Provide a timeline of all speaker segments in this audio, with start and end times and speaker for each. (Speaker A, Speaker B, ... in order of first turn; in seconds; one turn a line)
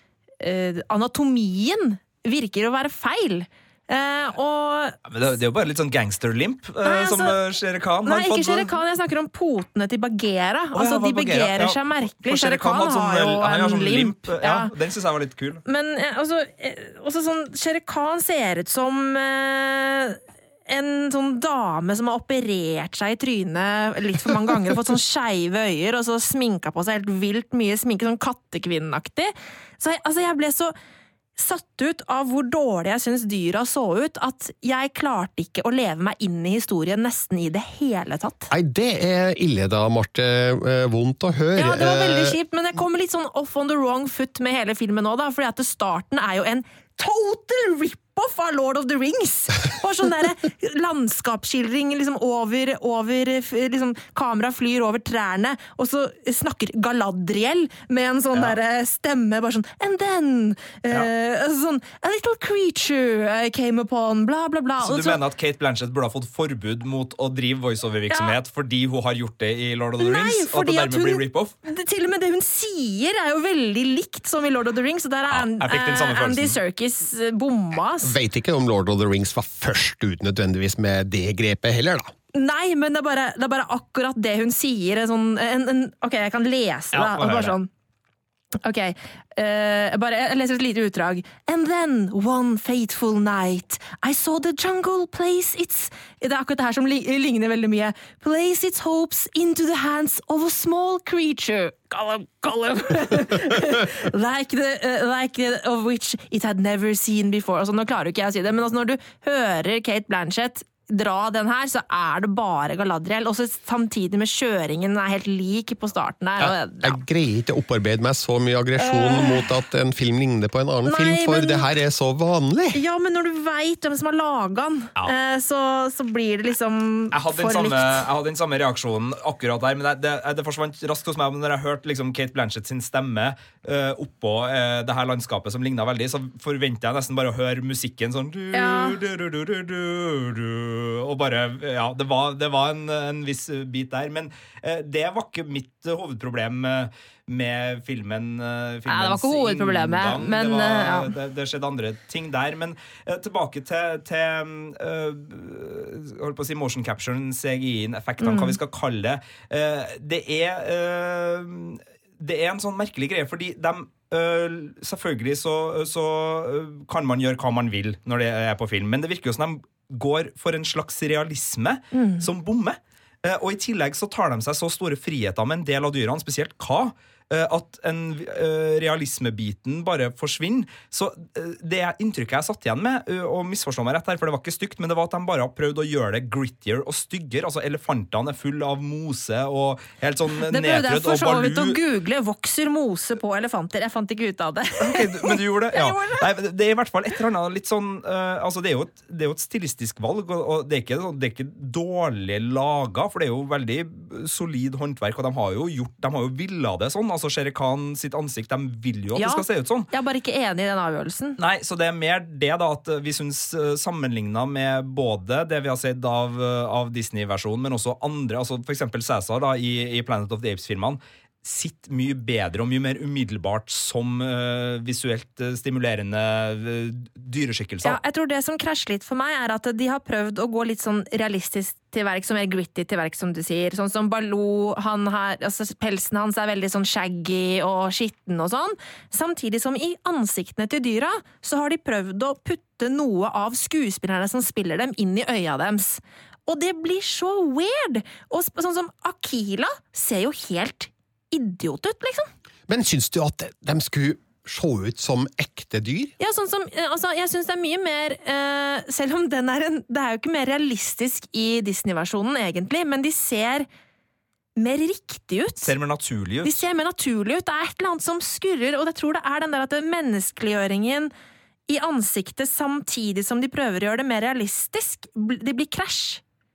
Speaker A: 0.4-5.0
Speaker B: 5.1-8.8
Speaker A: 6.8-7.4
Speaker A: 8.1-14.7
Speaker B: 10.8-15.6
Speaker A: 15.7-30.7
Speaker A: 31.4-38.5
Speaker C: 38.5-42.4
Speaker A: 41.6-65.2
Speaker B: 64.8-71.5
Speaker A: 68.1-68.3
Speaker A: 70.0-78.1
Speaker B: 75.3-76.6
Speaker C: 78.0-82.1
Speaker A: 82.3-87.7
Speaker B: 86.9-87.6
Speaker A: 88.6-117.0
Speaker C: 116.4-122.8
Speaker A: 118.8-119.5
Speaker A: 120.9-121.7
Speaker A: 122.7-128.0
Speaker B: 127.1-191.8
Speaker A: 138.5-139.0
Speaker A: 148.9-151.1
Speaker A: 158.2-158.6
Speaker A: 171.9-172.2
Speaker A: 190.4-196.2
Speaker B: 194.8-209.9
Speaker A: 209.2-211.4
Speaker B: 211.4-228.0
Speaker A: 227.8-252.3
Speaker C: 252.7-256.1
Speaker A: 256.2-263.7
Speaker A: 264.6-265.7
Speaker B: 265.6-266.6
Speaker A: 266.4-271.1
Speaker A: 271.7-276.2